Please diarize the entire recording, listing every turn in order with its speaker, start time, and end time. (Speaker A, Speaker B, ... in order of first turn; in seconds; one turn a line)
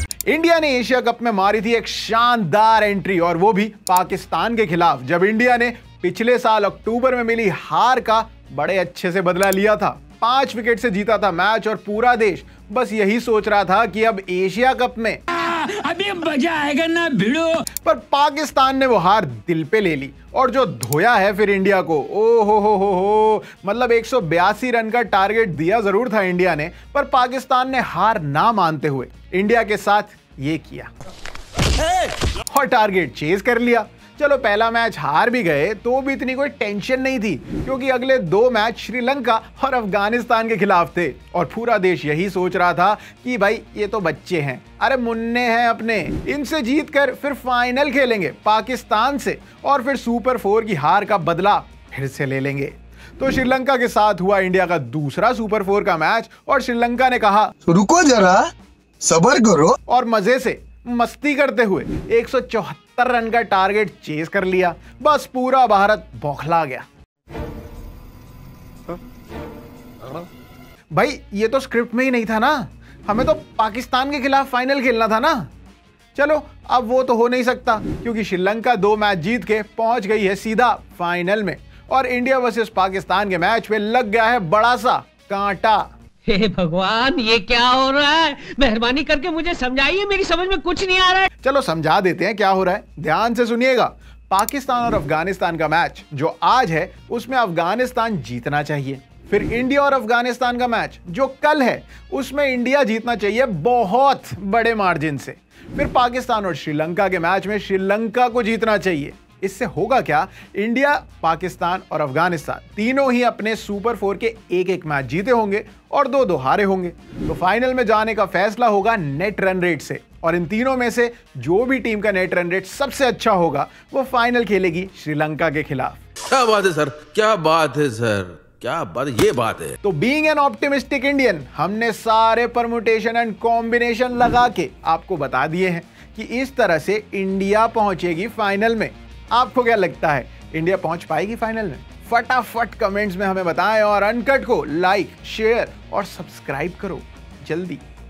Speaker A: 0.3-15.2
Speaker B: 15.3-17.6
Speaker A: 17.8-30.9
Speaker A: 32.5-57.5
Speaker C: 57.6-59.8
Speaker A: 59.9-66.9
Speaker A: 70.9-75.5
Speaker A: 76.1-85.9
Speaker D: 86.3-91.3
Speaker A: 91.4-126.0
Speaker E: 126.3-129.8
Speaker A: 129.8-147.8